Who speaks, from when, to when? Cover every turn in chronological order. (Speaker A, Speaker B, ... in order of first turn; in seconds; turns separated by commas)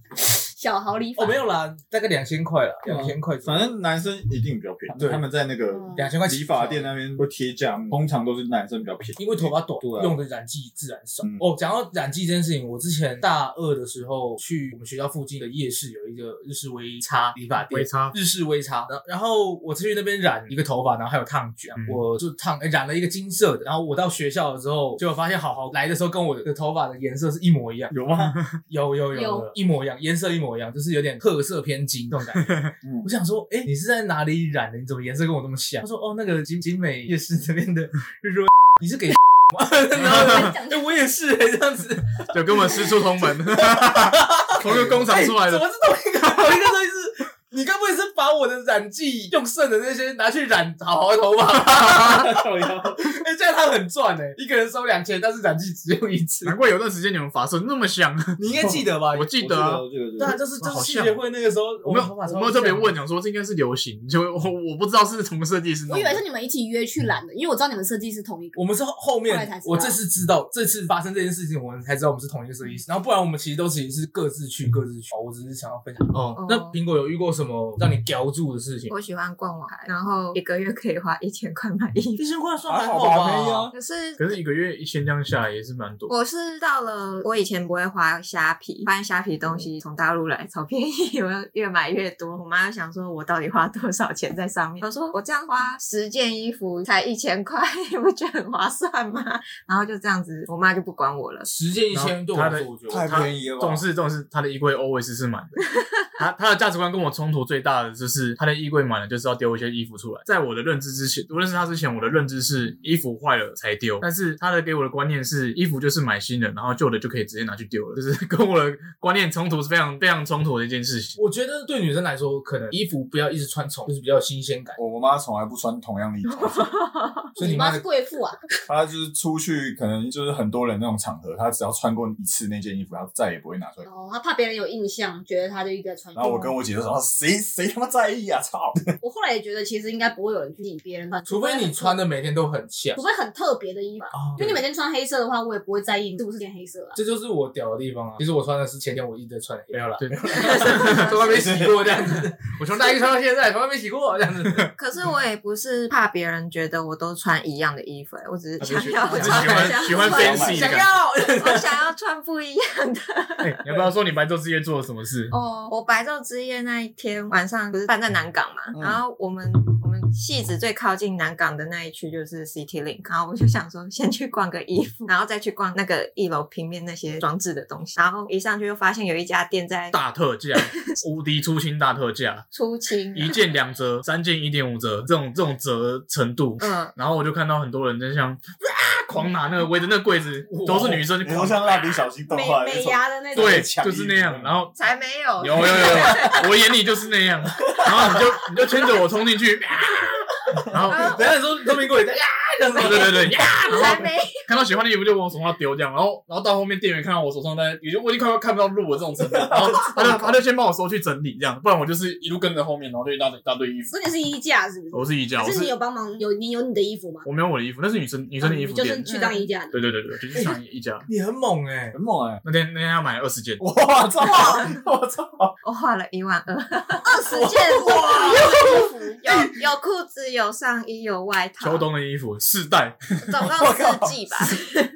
Speaker A: 0.3-1.4, Speaker B: 1.2-3.7, Speaker C: 2.8-10.2, Speaker A: 5.7-6.0, Speaker B: 6.0-6.9, Speaker B: 9.2-27.9, Speaker D: 17.7-18.2, Speaker D: 21.8-22.0, Speaker C: 27.9-28.4, Speaker B: 28.7-56.5, Speaker A: 29.1-29.5, Speaker C: 32.8-33.1, Speaker A: 40.0-40.9, Speaker D: 42.3-45.6, Speaker C: 51.8-53.0, Speaker D: 56.4-58.4, Speaker B: 58.4-59.4, Speaker C: 58.6-58.9, Speaker D: 59.1-59.8, Speaker C: 59.4-60.4, Speaker B: 60.2-63.0, Speaker D: 60.6-61.2, Speaker D: 61.9-66.2, Speaker A: 65.9-68.6, Speaker B: 68.6-78.9, Speaker A: 69.3-70.0, Speaker E: 76.4-76.8, Speaker E: 78.9-82.2, Speaker B: 82.2-83.7, Speaker C: 82.7-83.8, Speaker E: 83.7-84.4, Speaker D: 84.2-86.1, Speaker E: 86.1-101.5, Speaker B: 101.5-103.1, Speaker D: 101.9-121.2, Speaker C: 102.9-103.8, Speaker B: 121.2-124.8, Speaker C: 124.8-126.7, Speaker E: 126.3-127.3, Speaker A: 127.4-128.4, Speaker B: 127.4-127.8, Speaker C: 128.7-133.9, Speaker A: 133.8-136.6, Speaker C: 136.2-138.9, Speaker A: 139.0-142.0, Speaker B: 141.3-143.0, Speaker A: 142.9-147.0, Speaker B: 144.1-144.6, Speaker B: 147.0-154.7, Speaker D: 150.0-151.2, Speaker C: 151.2-152.2, Speaker E: 154.8-163.6, Speaker D: 158.6-160.9, Speaker B: 159.0-161.9, Speaker C: 160.0-160.7, Speaker A: 160.1-160.8, Speaker D: 163.5-165.3, Speaker E: 165.3-179.9, Speaker C: 168.7-169.0, Speaker D: 179.9-182.5, Speaker E: 182.5-183.4, Speaker D: 183.1-192.0, Speaker E: 186.6-186.9, Speaker B: 190.5-191.1, Speaker C: 190.9-194.7, Speaker A: 192.3-193.7, Speaker D: 193.3-194.7, Speaker E: 194.8-196.5, Speaker D: 195.4-201.2, Speaker B: 200.9-203.5, Speaker E: 200.9-201.3, Speaker D: 202.8-213.9, Speaker E: 203.7-204.4, Speaker C: 209.3-210.3, Speaker A: 213.9-217.3, Speaker D: 214.9-215.7, Speaker D: 217.2-219.1, Speaker A: 218.4-219.8, Speaker E: 219.1-219.5, Speaker D: 219.7-221.1, Speaker B: 220.3-222.0, Speaker C: 221.9-222.4, Speaker D: 222.4-223.6, Speaker C: 223.6-225.6, Speaker E: 224.2-224.6, Speaker E: 225.6-227.4, Speaker A: 227.0-229.2, Speaker B: 227.3-229.5, Speaker E: 227.9-231.9, Speaker D: 231.6-233.0, Speaker E: 233.2-234.8, Speaker C: 233.3-234.5